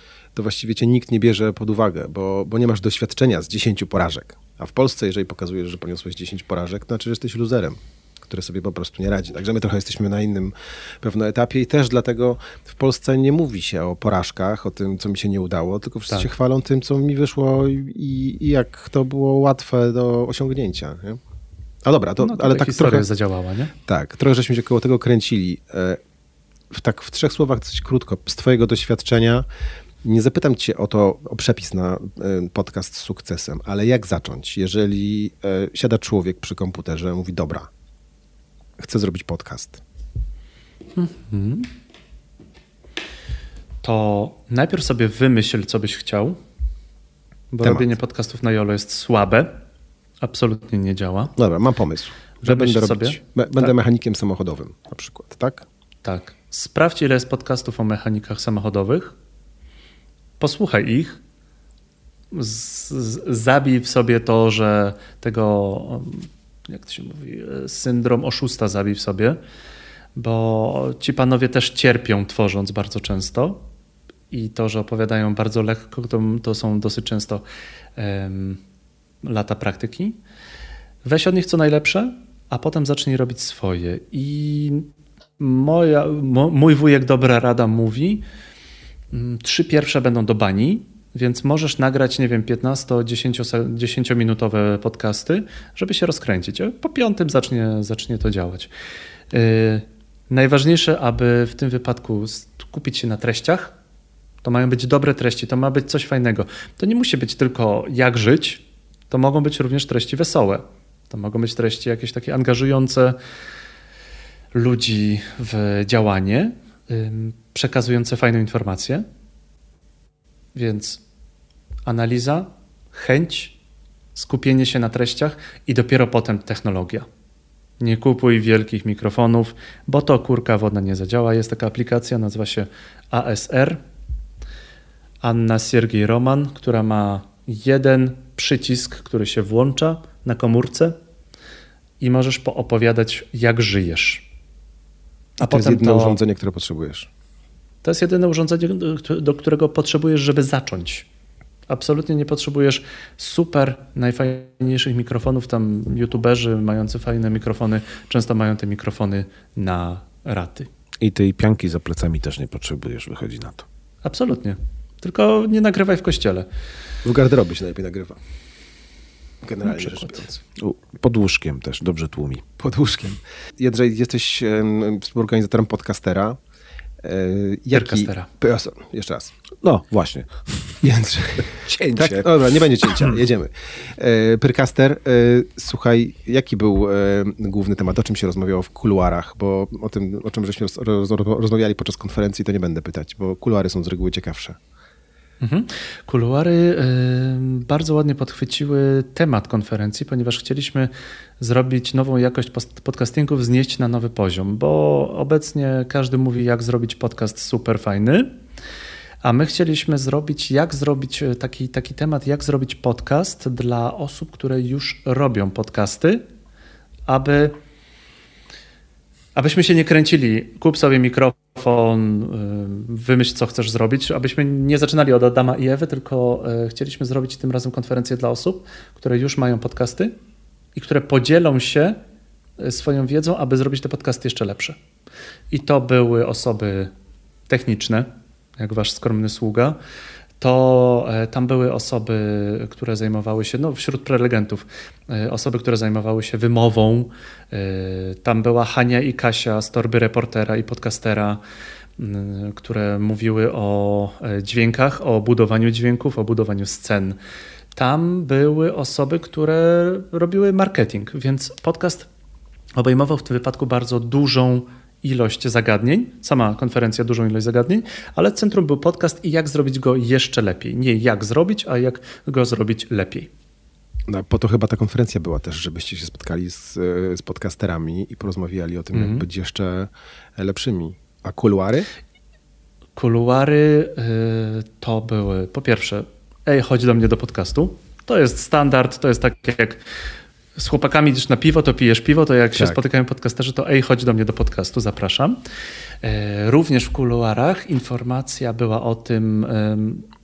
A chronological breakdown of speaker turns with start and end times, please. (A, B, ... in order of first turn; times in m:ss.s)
0:00.3-0:21.2 A
0:21.8-0:23.1 A
0:22.2-0:23.7 B
0:23.8-0:26.0 A
0:26.7-0:29.4 A
0:30.0-0:37.7 A
0:38.8-0:39.8 A
0:41.0-0:41.7 B
0:43.8-0:46.4 B
0:47.5-0:49.6 B
0:47.6-0:47.9 A
0:50.2-0:51.3 B
0:51.4-0:55.6 A
0:52.4-0:53.7 B
0:56.0-0:59.1 B
1:00.4-1:01.2 B
1:02.3-1:09.4 B
1:10.1-1:13.6 B
1:14.3-1:17.4 B
1:18.0-1:18.6 B
1:19.2-1:20.2 B
1:21.0-1:24.9 B
1:25.4-1:28.2 B
1:29.1-1:38.7 B
1:39.3-1:43.7 B
1:44.4-1:53.2 B
1:54.5-1:59.0 B
2:00.5-2:01.0 B
2:01.8-2:03.5 B
2:04.1-2:07.1 B
2:07.8-2:13.8 B
2:15.2-2:21.0 B
2:22.0-2:24.2 B
2:25.4-2:26.2 B
2:25.5-2:27.1 A
2:27.8-2:31.0 B
2:31.7-2:40.7 B
2:41.0-2:43.6 C
2:44.0-2:46.5 B
2:47.0-2:48.2 A
2:49.4-2:50.4 A
2:49.7-2:50.2 B
2:50.6-2:52.4 C
2:52.6-2:56.4 A
2:57.0-2:59.3 A
2:57.7-2:58.3 B
2:59.6-3:00.9 C
3:00.8-3:14.6 A
3:01.5-3:03.1 C
3:15.4-3:28.3 B
3:29.2-3:36.2 B
3:37.1-3:37.6 B
3:39.3-3:50.1 B
3:50.7-3:52.0 B
3:52.6-3:54.8 B
3:55.5-3:56.9 B
3:57.5-3:59.8 B
4:00.4-4:11.4 B
4:12.0-4:17.2 B
4:17.7-4:22.1 B
4:22.8-4:33.3 B
4:34.1-4:41.9 A
4:38.9-4:39.2 B
4:43.0-4:49.9 B
4:50.5-4:55.4 B
4:52.5-4:52.8 A
4:56.0-5:00.1 B